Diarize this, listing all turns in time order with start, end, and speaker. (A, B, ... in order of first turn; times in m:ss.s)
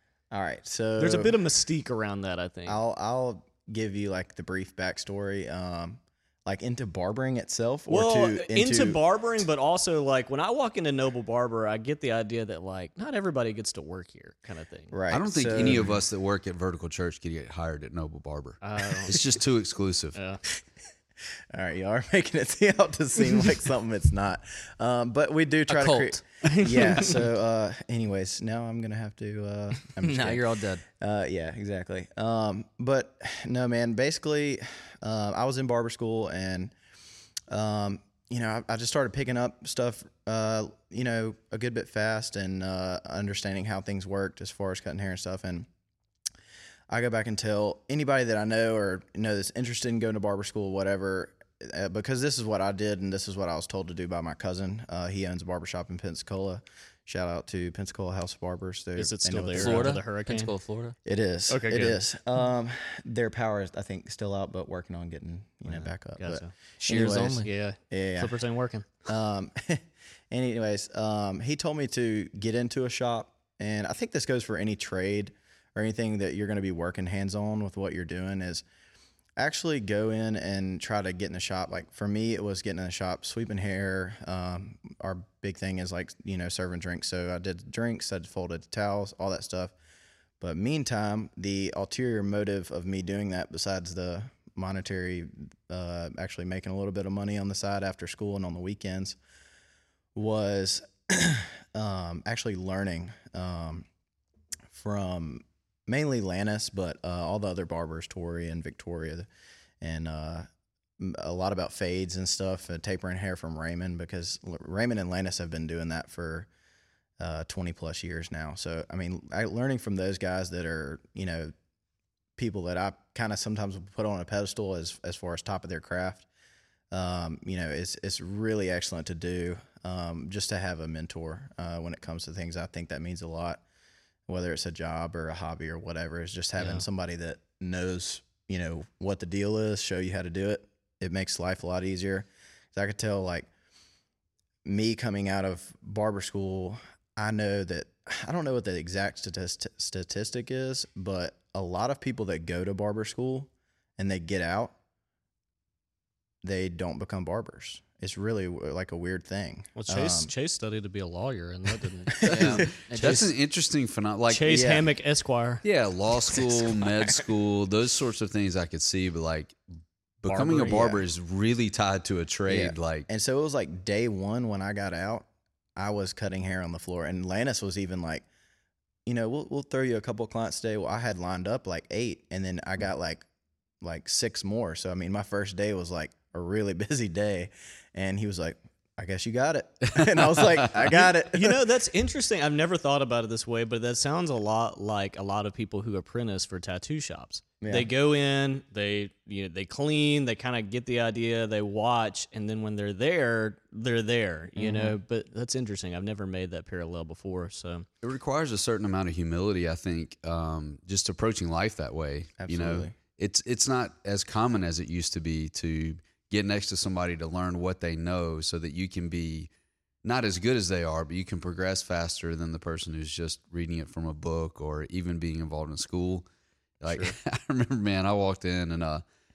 0:00.3-0:01.3 A
0:01.0-0:02.8 B
0:02.6-0:09.0 A
0:07.9-0:14.9 B
0:14.9-0:16.0 A
0:15.1-0:20.2 C
0:18.6-0:19.2 B
0:20.1-0:20.4 B
0:21.5-0:30.4 A
0:25.7-0:26.2 D
0:26.4-0:27.3 B
0:30.0-0:30.8 D
0:31.0-0:36.7 A
0:37.5-0:45.7 A
0:46.9-1:00.0 A
0:59.0-1:00.5 B
0:59.5-1:00.9 D
1:01.0-1:08.4 A
1:01.5-1:02.0 B
1:06.2-1:06.5 B
1:06.8-1:07.5 D
1:07.4-1:08.8 B
1:09.0-1:18.6 A
1:19.4-1:29.7 A
1:30.4-1:39.2 A
1:40.1-1:43.8 A
1:44.7-1:49.3 A
1:49.8-1:50.5 A
1:51.0-1:56.5 A
1:57.2-2:01.5 A
2:02.4-2:06.2 A
2:06.9-2:13.6 A
2:14.3-2:23.5 A
2:16.6-2:16.8 B
2:24.6-2:34.7 A
2:36.4-2:40.3 A
2:39.7-2:42.3 B
2:42.2-2:42.5 A
2:42.2-2:44.6 C
2:42.2-2:43.3 D
2:44.3-2:45.6 B
2:44.5-2:44.9 A
2:45.6-2:49.6 C
2:50.2-2:53.1 C
2:50.3-2:51.0 A
2:50.4-2:50.8 B
2:52.4-2:58.2 A
2:59.0-3:03.2 A
3:03.8-3:11.7 A
3:09.9-3:10.7 C
3:10.8-3:27.8 B
3:17.6-3:17.9 A
3:24.6-3:24.8 D
3:28.0-3:39.5 C
3:32.4-3:33.0 A
3:40.0-3:46.2 C
3:46.8-3:49.0 C